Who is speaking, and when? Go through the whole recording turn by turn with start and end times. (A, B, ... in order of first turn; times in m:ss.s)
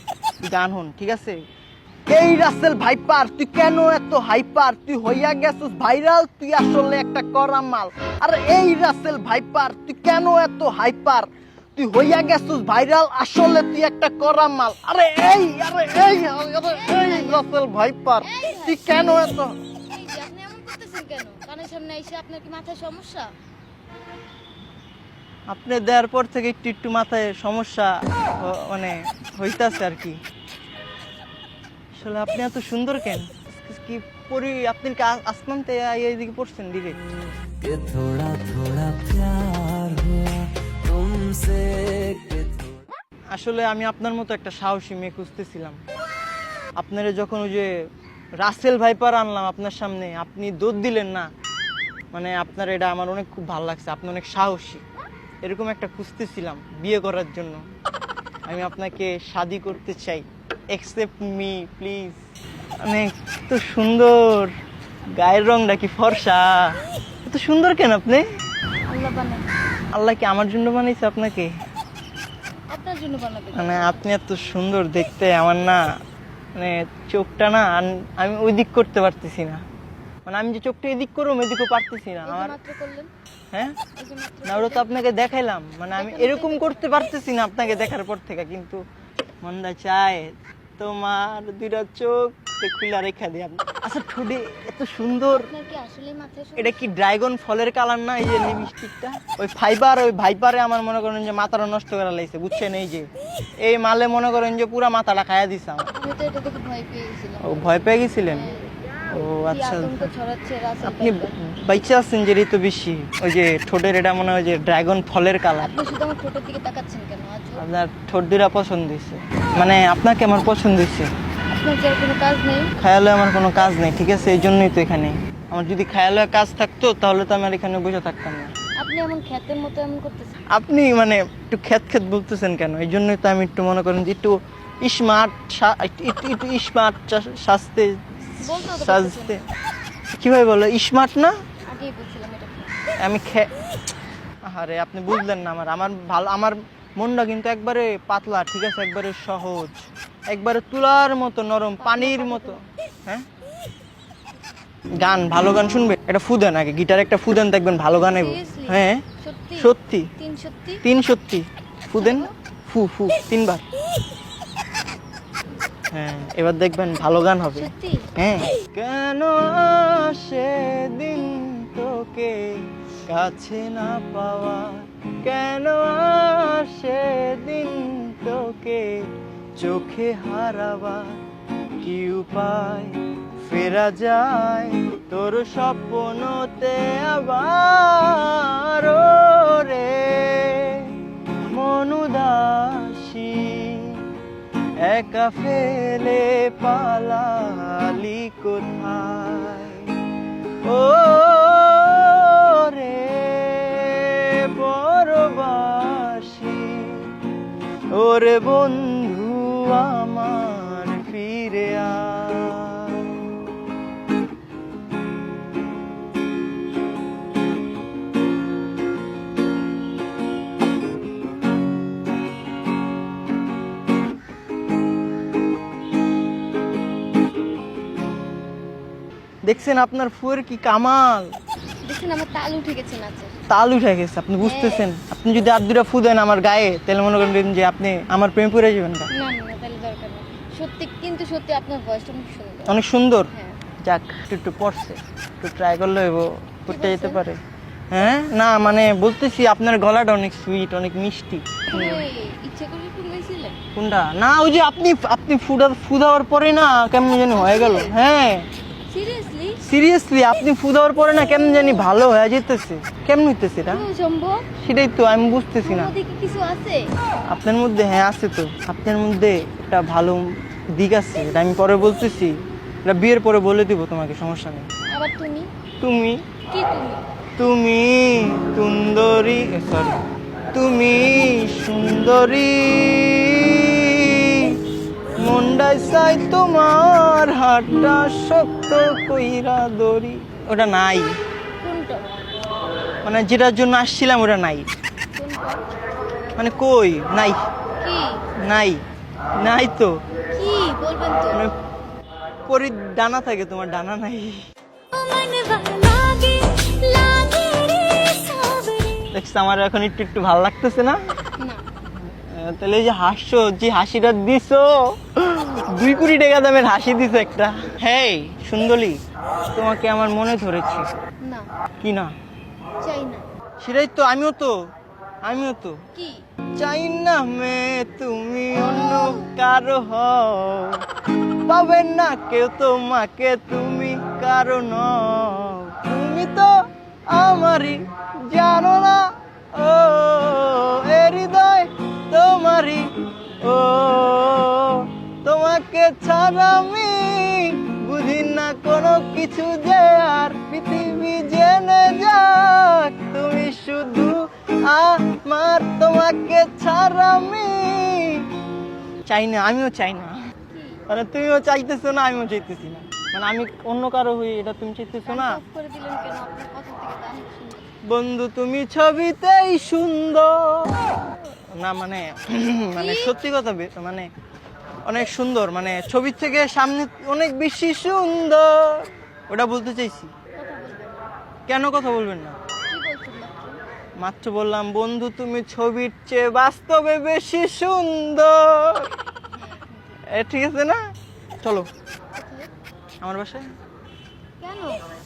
0:00.4-0:01.4 A
0:02.1-0:19.5 A
0:16.6-0:17.5 B
0:18.2-0:23.3 B
0:25.5-0:30.2 A
0:31.9-0:37.0 A
0:37.6-0:42.6 C
0:43.3-0:45.8 A
0:46.8-0:47.8 A
0:48.4-0:51.3 A
0:52.1-0:54.8 A
0:55.4-0:57.6 A
0:58.5-1:02.2 A
1:02.8-1:04.5 A
1:05.2-1:08.2 A
1:08.9-1:09.5 B
1:09.9-1:11.5 A
1:12.7-1:14.1 B
1:13.5-1:15.8 A
1:16.6-1:19.6 A
1:20.2-1:22.6 A
1:22.2-1:23.1 B
1:23.5-1:23.8 A
1:24.0-1:24.9 B
1:24.4-1:28.8 A
1:25.9-1:27.0 B
1:29.4-1:35.5 A
1:35.3-1:36.9 B
1:36.6-1:43.1 A
1:43.6-1:45.9 A
1:45.9-1:48.7 B
1:47.4-1:48.5 A
1:49.1-1:50.1 A
1:49.5-1:51.3 B
1:50.8-1:55.7 A
1:55.6-1:57.7 B
1:57.6-2:01.1 A
2:01.5-2:02.7 B
2:02.8-2:08.5 A
2:08.8-2:10.4 B
2:10.5-2:18.0 A
2:18.4-2:19.5 B
2:18.7-2:19.4 A
2:20.2-2:21.3 A
2:21.7-2:22.8 B
2:23.0-2:23.5 A
2:24.5-2:33.2 A
2:31.8-2:32.6 B
2:35.0-2:39.1 A
2:38.0-2:40.8 B
2:39.6-2:40.1 A
2:40.8-2:43.6 A
2:42.0-2:42.3 B
2:45.9-2:59.1 A
2:47.4-2:48.1 B
2:59.6-3:01.2 A
3:01.8-3:10.9 A
3:11.5-3:14.0 A
3:14.8-3:19.9 A
3:20.6-3:27.1 A
3:27.9-3:33.3 A
3:49.4-3:51.3 A
3:51.8-3:53.3 B
3:53.5-3:59.1 A
3:54.4-3:54.9 B
3:59.1-4:02.8 B
4:02.7-4:03.3 A
4:03.3-4:03.6 B
4:03.8-4:07.4 A
4:06.7-4:07.2 B
4:07.9-4:12.0 A
4:11.7-4:13.6 B
4:13.7-4:18.5 A
4:17.3-4:18.0 B
4:18.9-4:19.6 B
4:19.6-4:23.8 A
4:23.7-4:24.5 B
4:24.6-4:25.9 A
4:25.6-4:26.9 B
4:27.3-4:34.7 A
4:34.9-4:35.5 B
4:35.8-4:36.2 A
4:36.5-4:37.0 B
4:37.4-4:40.0 A
4:40.5-4:44.6 A
4:45.2-4:51.2 A
4:51.6-4:52.0 B
4:53.0-4:54.6 A
4:55.1-4:55.6 B
4:56.4-4:57.4 A
4:57.8-4:58.2 B
4:58.4-4:58.8 A
4:59.4-5:00.0 A
5:00.3-5:01.4 B
5:02.5-5:04.4 A
5:04.9-5:09.0 B
5:09.1-5:11.0 A
5:11.4-5:11.7 B
5:12.1-5:19.0 A
5:19.5-5:20.9 A
5:21.2-5:21.5 B
5:21.8-5:22.1 A
5:22.8-5:23.2 B
5:23.6-5:24.6 A
5:25.2-5:25.8 A
5:26.0-5:26.3 B
5:26.6-5:30.8 A
5:28.5-5:29.3 B
5:31.5-5:58.3 A
5:59.0-6:00.2 A
6:00.5-6:00.8 B
6:00.9-6:05.4 A
6:05.0-6:07.7 B
6:07.9-6:14.1 A
6:12.8-6:13.1 B
6:14.9-6:20.1 A
6:20.4-6:21.0 B
6:21.5-6:22.4 A
6:22.7-6:23.6 B
6:24.0-6:28.9 A
6:29.3-6:30.0 B
6:30.1-6:30.8 A
6:31.4-6:31.7 A
6:32.1-6:32.5 B
6:33.0-6:33.5 A
6:34.4-6:34.8 B